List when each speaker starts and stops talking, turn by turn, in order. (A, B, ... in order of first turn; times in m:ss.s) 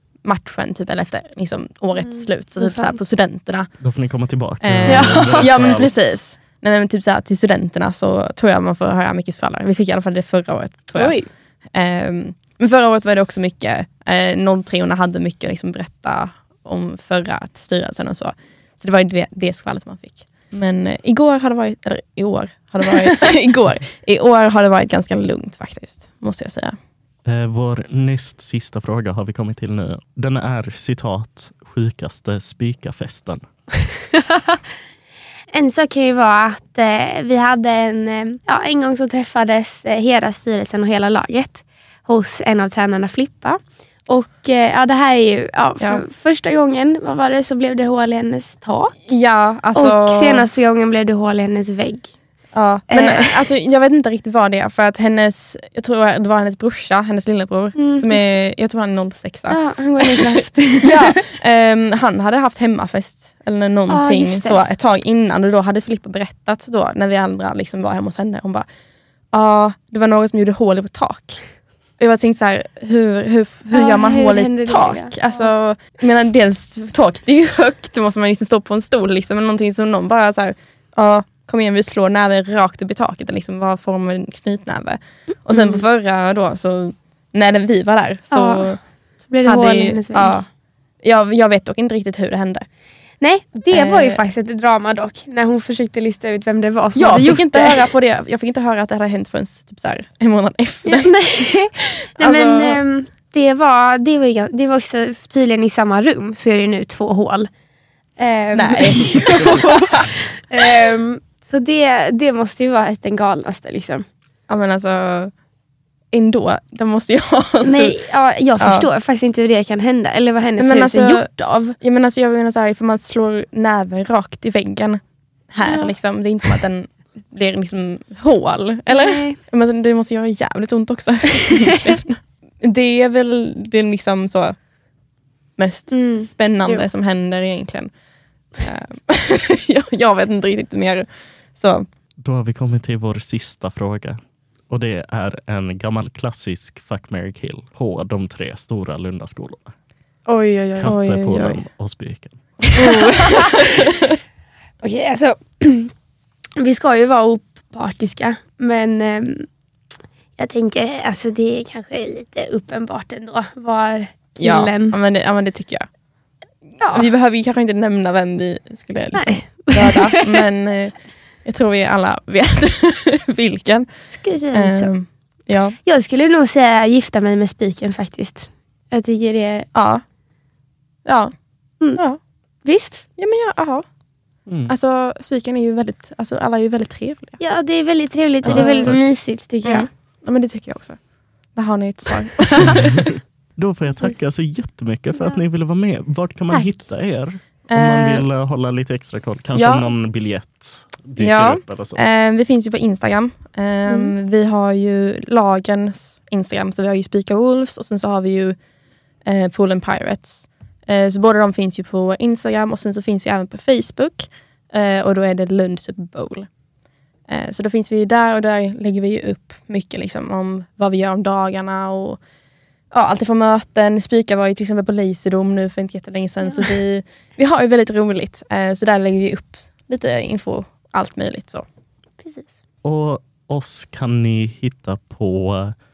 0:00.2-0:03.8 A
0:02.0-0:03.0 B
0:03.8-0:06.1 C
0:04.6-0:26.8 A
0:04.9-0:05.5 B
0:11.0-0:11.3 B
0:27.3-0:33.4 C
0:35.5-0:49.1 B
0:45.8-0:46.0 A
0:49.1-0:50.5 A
0:49.7-0:52.1 B
0:52.5-1:08.7 A
0:52.9-0:53.5 B
0:57.8-0:58.3 B
0:59.5-1:01.2 B
1:03.9-1:04.6 B
1:09.3-1:28.8 A
1:13.7-1:15.5 B
1:28.3-1:30.4 B
1:29.4-1:30.5 A
1:31.0-1:32.7 A
1:33.2-1:37.9 B
1:33.7-1:34.2 A
1:37.0-1:42.8 A
1:40.8-1:47.5 B
1:48.2-1:54.1 B
1:48.5-1:49.6 A
1:54.5-1:55.3 A
1:56.1-1:58.0 A
1:57.6-2:01.8 B
1:58.6-1:58.9 A
2:00.6-2:14.6 A
2:05.6-2:05.9 B
2:08.9-2:09.4 B
2:15.6-2:17.9 A
2:15.9-2:16.9 B
2:18.6-2:21.9 A
2:22.2-2:24.2 C
2:24.7-2:29.7 C
2:30.3-2:31.0 B
2:30.8-2:32.6 C
2:30.8-2:31.6 A
2:32.7-2:33.8 A
2:32.7-2:33.5 B
2:34.8-2:35.9 B
2:36.6-2:39.5 B
2:40.4-2:45.0 B
2:44.4-2:45.8 A
2:46.8-2:55.8 A
2:46.8-2:47.1 B
2:49.2-2:50.3 B
2:54.1-2:55.2 B
2:55.8-2:59.7 B
2:59.7-3:00.0 A
3:01.0-3:01.3 A
3:01.9-3:02.2 A
3:02.6-3:03.1 B
3:03.2-3:03.8 A
3:04.5-3:04.7 C
3:04.6-3:07.4 A
3:07.4-3:09.9 B
3:08.4-3:12.9 A
3:08.5-3:09.0 C
3:13.6-3:22.0 C
3:15.2-3:15.4 B
3:16.5-3:16.9 B
3:17.7-3:18.3 A
3:19.5-3:19.9 A
3:21.2-3:28.6 A
3:23.9-3:24.1 B
3:29.2-3:36.5 A
3:37.3-3:42.2 A
3:42.9-3:51.6 A
3:52.2-3:52.6 B
3:52.8-3:55.8 C